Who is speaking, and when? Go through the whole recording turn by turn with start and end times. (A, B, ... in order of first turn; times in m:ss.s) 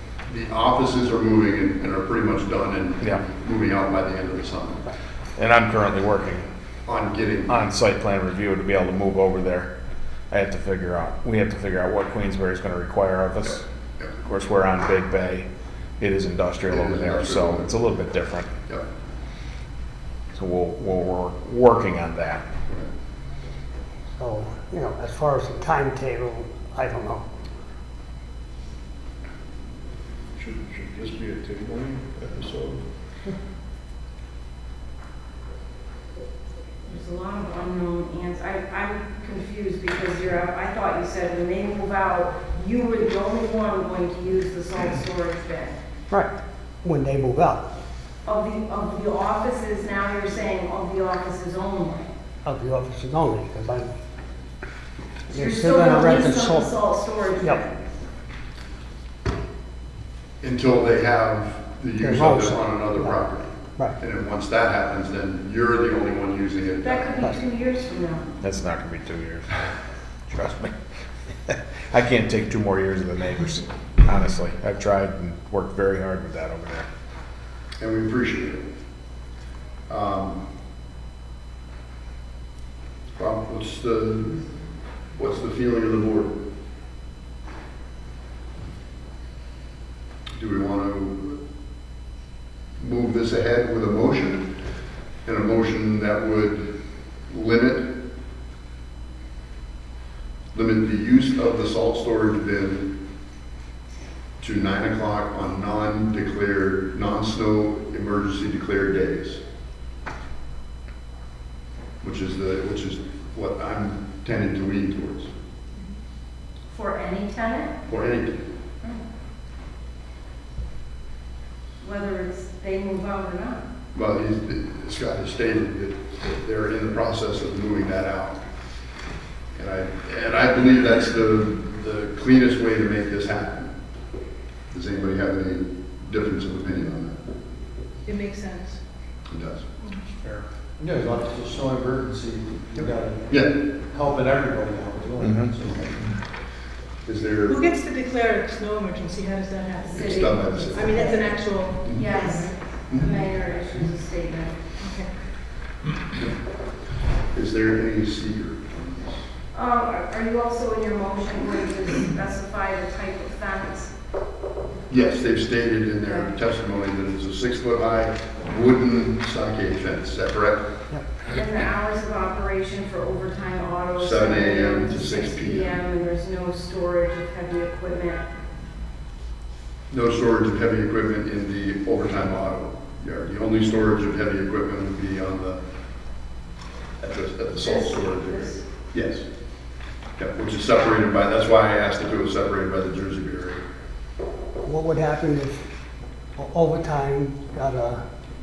0:00.3-0:04.9 A
0:05.4-0:06.5 B
0:06.8-0:07.6 A
0:07.5-0:09.7 B
0:10.3-0:13.6 B
0:14.2-0:15.5 B
0:16.0-0:18.5 B
0:16.7-0:17.8 A
0:20.3-0:22.4 B
0:24.2-0:27.2 C
0:30.4-0:32.8 D
0:31.5-0:31.8 A
0:36.8-0:45.8 E
0:46.8-0:47.7 C
0:48.2-0:52.1 E
0:52.4-0:53.9 C
0:55.3-0:56.7 C
0:55.3-0:57.8 E
1:00.4-1:07.3 A
1:02.0-1:03.2 C
1:06.8-1:08.2 E
1:08.4-1:09.6 B
1:10.3-1:10.7 B
1:11.5-1:16.9 B
1:17.8-1:18.6 A
1:19.9-1:20.4 A
1:23.2-1:24.4 A
1:25.2-1:26.4 A
1:30.3-1:31.4 A
1:32.8-1:34.5 A
1:35.2-1:36.7 A
1:37.3-1:37.9 A
1:40.5-1:42.9 A
1:44.4-1:49.4 A
1:52.0-1:55.3 A
1:56.7-1:57.8 E
1:57.9-1:58.5 A
2:01.8-2:03.6 E
2:03.9-2:08.4 A
2:09.5-2:13.7 A
2:14.7-2:17.2 A
2:18.0-2:18.8 F
2:19.3-2:19.7 A
2:19.8-2:20.2 F
2:20.2-2:26.1 G
2:22.8-2:23.6 A
2:25.2-2:25.5 B
2:27.0-2:27.6 A
2:27.5-2:32.5 F
2:29.8-2:34.6 E
2:29.9-2:31.0 A
2:31.8-2:32.3 A
2:34.8-2:35.1 F
2:37.3-2:39.2 A
2:39.5-2:43.9 E
2:44.9-2:50.6 A
2:46.0-2:46.3 E
2:51.3-2:58.2 E
2:54.0-2:55.8 A
2:59.9-3:05.6 A
3:07.0-3:09.2 A
3:07.6-3:08.6 E
3:10.2-3:13.6 A
3:14.6-3:15.6 C
3:16.4-3:18.0 C